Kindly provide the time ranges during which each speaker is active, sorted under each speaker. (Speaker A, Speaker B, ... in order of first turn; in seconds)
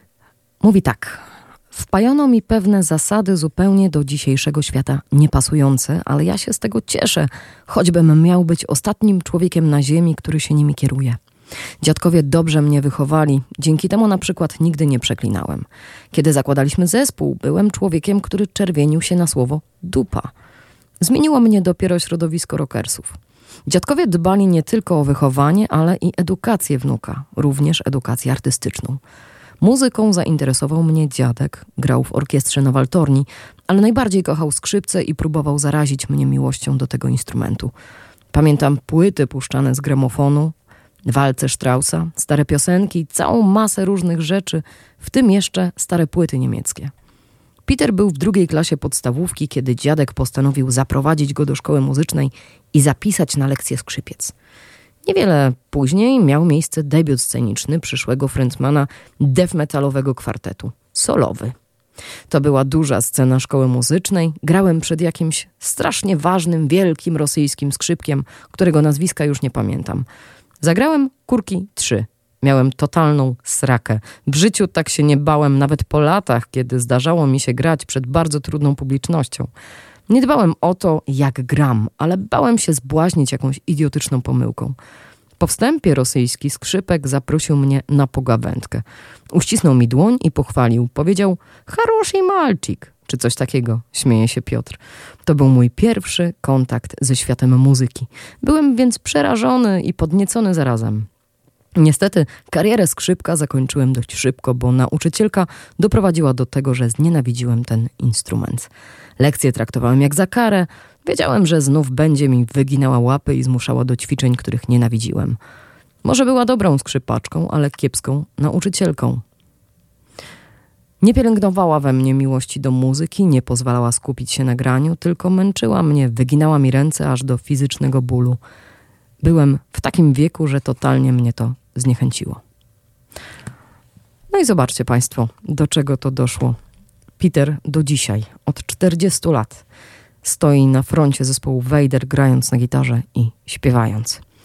Speaker A: 0.6-11.2, 11.8-20.3, 21.0-29.0, 29.6-37.7, 38.3-46.9, 47.6-54.3, 55.0-61.5, 62.3-70.0, 70.6-79.5, 80.1-84.8, 85.4-101.1, 101.8-115.4, 116.0-119.2, 121.0-128.4, 129.2-132.4, 134.3-136.6, 137.2-139.6, 140.2-144.2